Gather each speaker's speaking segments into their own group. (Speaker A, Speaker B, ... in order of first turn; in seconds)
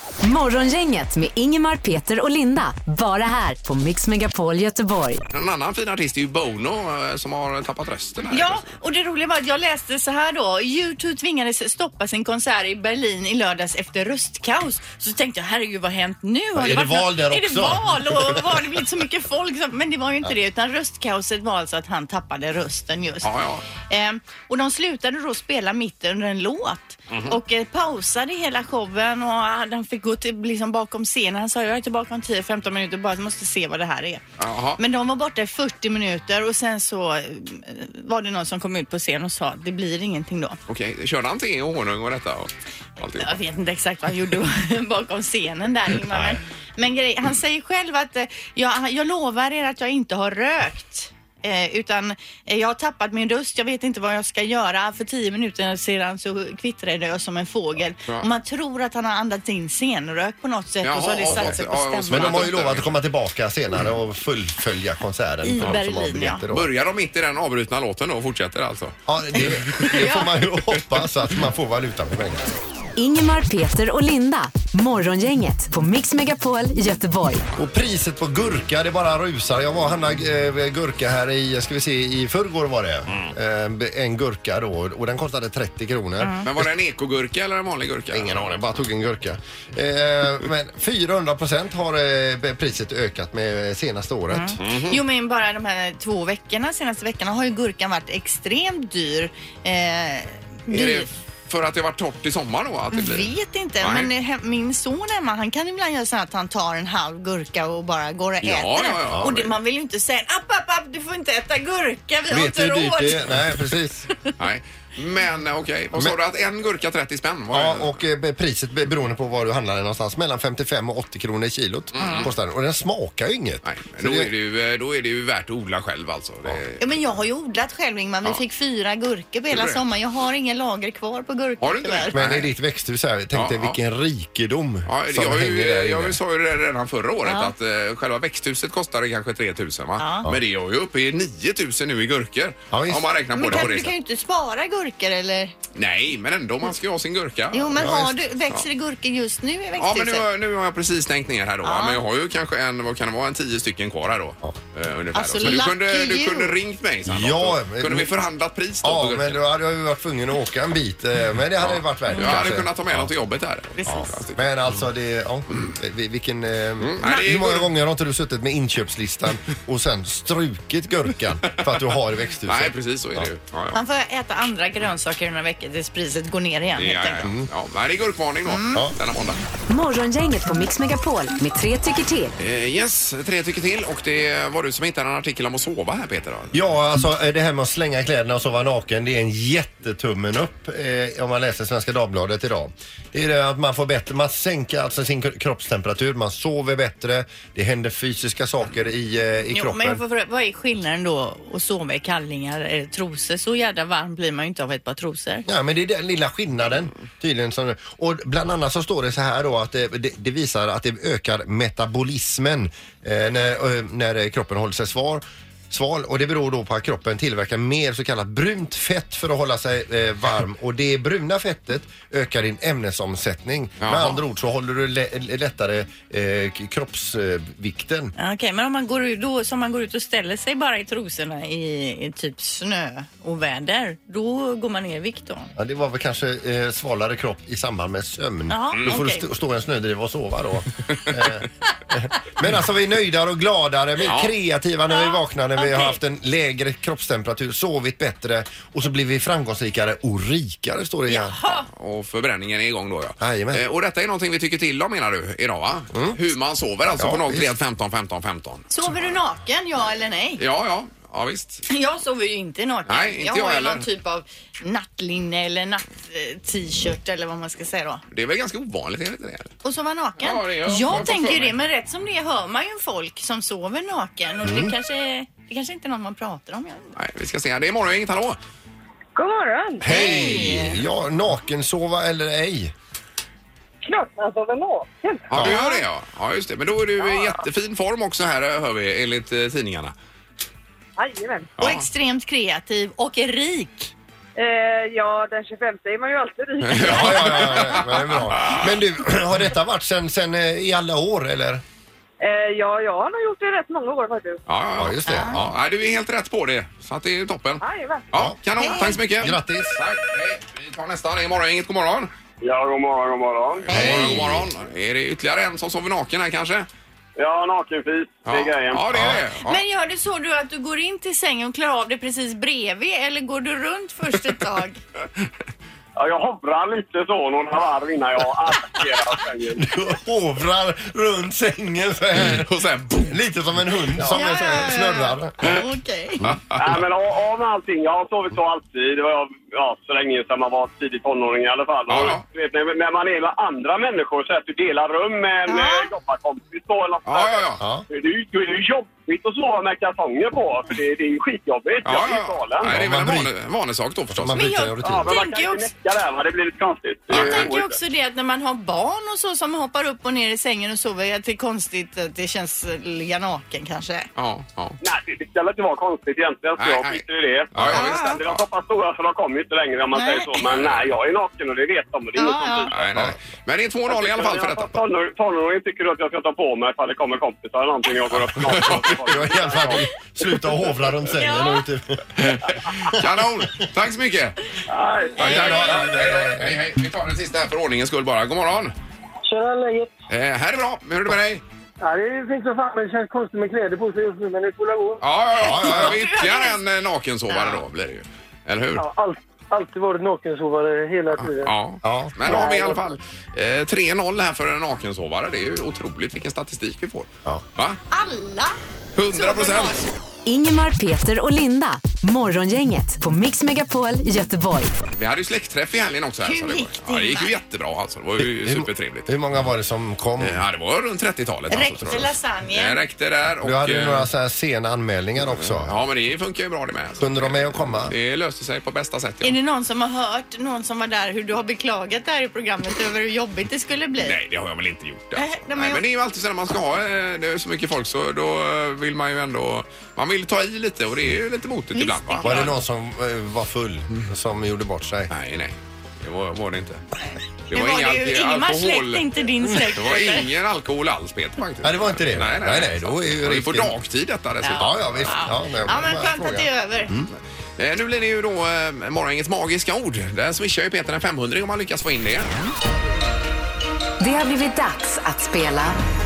Speaker A: 0.2-5.2, 73.0-77.4, 179.7-182.3, 410.2-414.7, 464.0-465.8
Speaker B: 5.3-8.6, 23.2-23.6, 27.1-27.4, 34.4-34.8, 40.7-43.4, 60.8-63.0, 66.5-69.9, 86.4-88.5, 94.6-95.0, 100.7-104.1, 108.4-109.5, 114.4-117.9, 121.9-122.3, 123.6-126.8, 129.5-129.8, 131.6-132.5, 133.3-133.8, 134.9-143.9, 145.7-147.9, 149.8-159.4, 161.6-164.5, 166.8-167.7, 171.5-171.9, 172.4-173.8, 176.8-179.4, 182.4-186.6, 223.8-224.2, 244.0-244.3, 251.7-258.7, 260.4-261.6, 262.9-263.9, 268.1-269.5, 270.2-271.5, 277.0-278.4, 285.3-289.9, 291.6-291.9, 296.6-298.8, 304.5-312.1, 313.6-316.7, 318.2-319.6, 332.1-333.2, 336.2-336.8, 341.9-342.2, 347.1-347.6, 351.8-354.5, 357.1-357.5, 364.1-364.8, 366.6-367.0, 367.5-368.4, 370.5-370.8, 372.7-374.8, 378.4-378.9, 382.2-384.4, 385.2-388.7, 390.1-391.4, 395.0-398.8, 401.1-407.8, 408.9-409.8, 414.9-419.1, 420.2-424.1, 425.2-429.4, 434.0-442.5, 445.1-446.8, 447.5-455.1, 457.6-462.3
Speaker C: 8.3-23.3, 23.9-34.2, 34.8-40.6, 43.2-62.5, 65.4-66.4, 69.7-70.3, 86.2-86.5, 94.3-101.1, 102.9-113.4, 126.8-132.2, 137.2-137.5, 140.0-140.3, 143.3-145.5, 147.5-150.2, 151.6-152.0, 155.1-156.5, 173.7-177.2, 178.4-178.8, 199.5-205.5, 228.2-235.5, 238.5-239.2, 244.9-246.0, 251.1-251.7, 258.7-260.4, 261.7-268.0, 269.6-276.9, 279.9-280.8, 285.4-285.8, 291.6-293.9, 305.1-305.4, 308.6-309.0, 319.4-324.8, 334.1-336.2, 345.5-345.9, 354.3-355.7, 357.1-364.1, 367.7-368.2, 369.9-370.4, 372.2-372.7, 381.1-381.6, 395.6-396.6, 397.3-397.6, 407.9-408.6, 409.1-409.9, 416.2-417.3, 421.5-422.8, 429.2-434.2, 435.1-435.8, 441.7-442.5, 447.5-450.3, 454.4-456.9
Speaker D: 16.5-18.4, 61.3-61.6, 62.1-66.7, 69.1-72.5, 77.5-86.7, 88.1-94.6, 112.3-114.1, 117.5-124.3, 132.1-136.2, 142.7-143.7, 147.8-148.1, 157.1-158.1, 158.8-163.1, 163.8-173.3, 186.5-200.0, 205.5-228.1, 235.6-251.4, 253.2-253.6, 255.9-256.2, 256.9-257.5, 274.4-274.7, 279.8-282.7, 296.8-301.6, 304.8-305.5, 309.1-309.8, 313.7-314.5, 318.9-319.2, 329.6-332.5, 333.1-335.6, 347.6-347.8, 352.6-353.3, 354.1-355.1, 379.0-383.1, 385.1-386.6, 395.4-396.0, 401.8-402.4, 418.2-420.4, 423.4-425.7, 427.0-427.9, 442.2-445.1, 451.6-453.7, 454.5-457.1
Speaker E: 279.1-279.9, 283.8-285.3, 291.0-291.5, 294.4-297.9, 302.2-304.4, 307.6-308.1
Speaker F: 312.4-313.9, 317.2-318.8, 325.9-329.6, 336.6-352.7, 354.8-357.8, 364.8-372.8, 373.9-379.8
Speaker G: 384.8-385.1, 389.2-389.9, 391.8-395.0, 398.8-401.5, 402.2-402.9